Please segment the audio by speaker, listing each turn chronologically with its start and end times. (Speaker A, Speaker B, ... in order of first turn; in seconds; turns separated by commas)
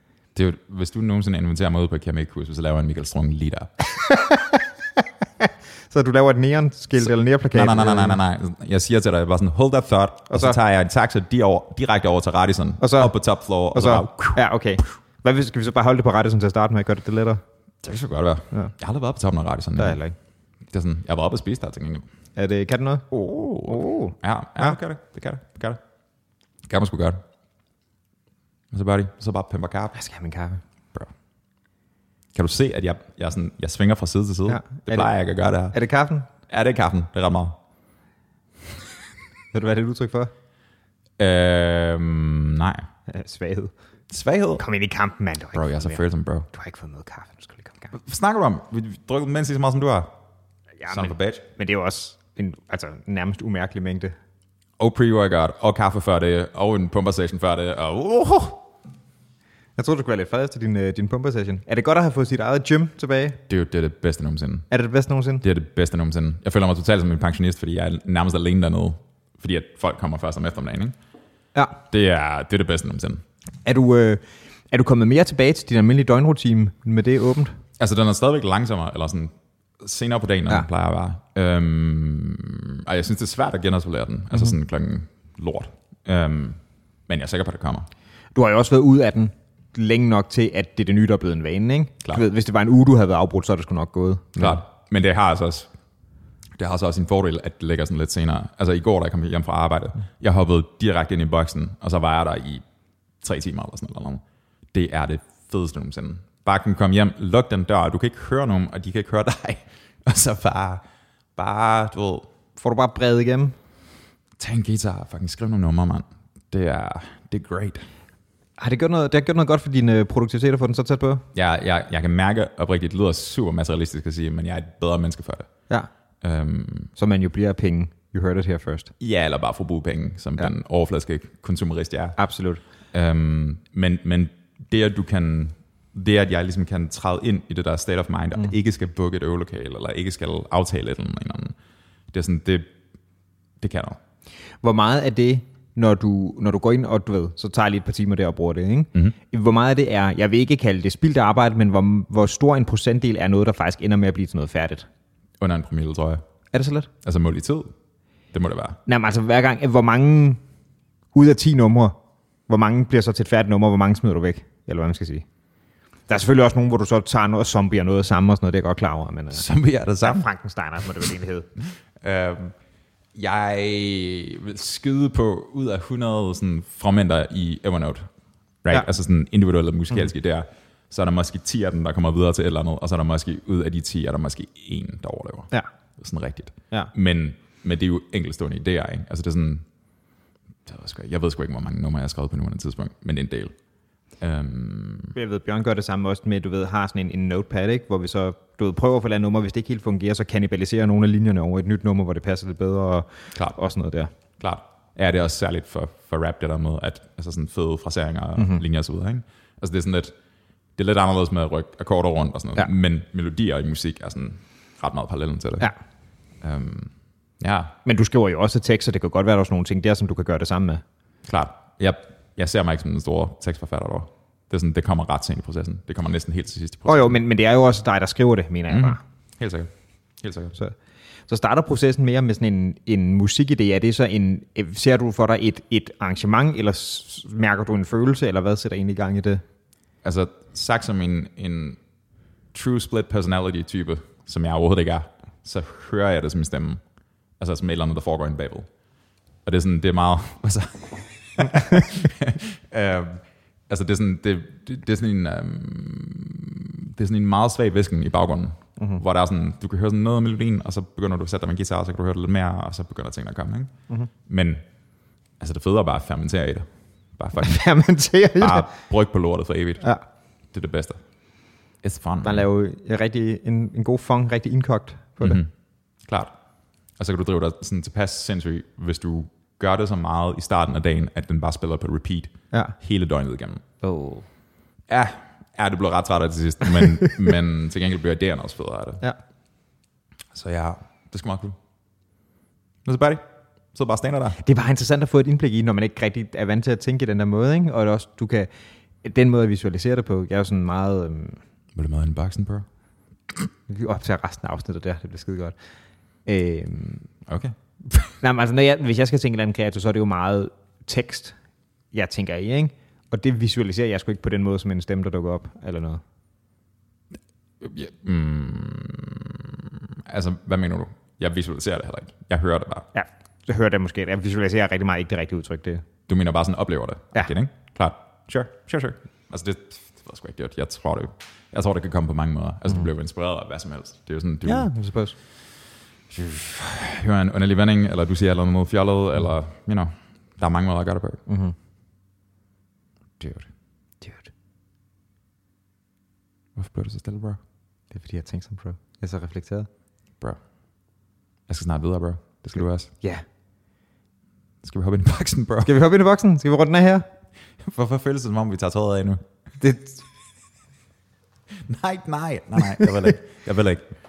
Speaker A: 0.3-3.7, Speaker B: 3.9-8.2, Speaker A: 7.0-14.4, Speaker B: 10.3-10.6, Speaker B: 12.8-13.1, Speaker B: 13.7-17.4, Speaker A: 17.8-20.0, Speaker B: 19.8-20.2, Speaker A: 20.7-22.1, Speaker B: 22.4-23.1, Speaker A: 23.1-25.8, Speaker B: 23.7-24.8, Speaker A: 26.7-27.2, Speaker A: 28.7-29.9, Speaker B: 29.9-30.6, Speaker A: 32.3-35.8, Speaker B: 34.5-35.1, Speaker B: 35.7-36.3, Speaker A: 36.5-37.6, Speaker B: 39.5-40.3, Speaker A: 41.2-42.9, Speaker B: 43.1-43.7, Speaker A: 44.1-44.6, Speaker B: 44.6-47.9, Speaker A: 45.5-46.5, Speaker A: 47.9-50.1, Speaker B: 50.8-54.1, Speaker A: 50.9-51.4, Speaker A: 54.8-58.6, Speaker B: 59.8-63.4, Speaker A: 63.5-64.7, Speaker B: 64.7-65.4, Speaker A: 65.4-71.0, Speaker A: 71.9-73.2, Speaker B: 73.7-77.6, Speaker A: 77.8-87.9, Speaker B: 88.3-94.6, Speaker A: 94.4-95.7, Speaker A: 96.6-102.6, Speaker A: 103.2-104.2, Speaker A: 104.7-110.8, Speaker A: 111.4-112.3, Speaker B: 112.6-113.6, Speaker A: 114.4-117.9, Speaker B: 118.6-121.2, Speaker A: 121.3-125.5, Speaker A: 126.2-126.9, Speaker B: 127.0-128.9, Speaker A: 129.0-132.2, Speaker B: 132.2-132.6, Speaker A: 132.9-141.6, Speaker A: 142.1-142.7, Speaker A: 143.6-144.0, Speaker B: 144.6-154.9, Speaker A: 155.4-156.2, Speaker B: 156.5-156.9, Speaker A: 157.0-157.7, Speaker A: 158.3-158.8, Speaker B: 158.9-160.4, Speaker B: 161.1-162.0, Speaker B: 162.5-165.2, Speaker B: 166.1-169.4, Speaker A: 169.3-170.3, Speaker B: 170.0-171.5, Speaker A: 172.0-172.6, Speaker A: 173.2-178.1, Speaker A: 178.6-189.7, Speaker A: 190.7-193.5, Speaker A: 194.2-195.2, Speaker B: 195.2-204.1, Speaker A: 204.4-210.1, Speaker A: 210.8-215.7, Speaker A: 216.4-217.8, Speaker B: 217.8-220.8, Speaker A: 221.3-227.2, Speaker B: 226.9-229.0, Speaker A: 228.7-229.7, Speaker A: 230.2-230.6, Speaker B: 231.3-239.4, Speaker A: 240.0-241.8, Speaker A: 242.5-246.8, Speaker A: 247.4-248.7, Speaker A: 249.4-263.7, Speaker A: 264.3-264.6, Speaker A: 265.4-267.6, Speaker B: 267.4-268.7, Speaker A: 268.4-269.9, Speaker A: 270.5-271.0, Speaker A: 271.8-272.5, Speaker B: 272.2-275.4, Speaker A: 275.2-275.5, Speaker A: 276.1-276.3, Speaker A: 277.0-283.6, Speaker B: 283.8-284.3, Speaker A: 284.9-289.0, Speaker A: 290.3-291.6, Speaker A: 292.9-293.2, Speaker A: 293.7-294.4, Speaker B: 294.4-298.5, Speaker B: 299.0-301.4, Speaker A: 301.8-302.7, Speaker B: 303.7-305.6, Speaker B: 306.3-307.1, Speaker A: 307.3-308.1, Speaker B: 308.2-311.4, Speaker B: 311.9-316.0, Speaker A: 317.6-322.9, Speaker B: 322.9-325.9, Speaker A: 326.1-334.7, Speaker B: 334.4-335.1, Speaker A: 336.1-341.2, Speaker B: 341.3-341.6, Speaker A: 343.2-343.5, Speaker B: 344.0-344.3, Speaker A: 346.6-347.4, Speaker B: 347.9-349.7, Speaker A: 351.5-352.9, Speaker A: 354.6-355.7, Speaker B: 355.6-357.1, Speaker A: 357.6-359.2, Speaker B: 359.6-360.0, Speaker A: 361.5-363.9, Speaker B: 362.8-363.1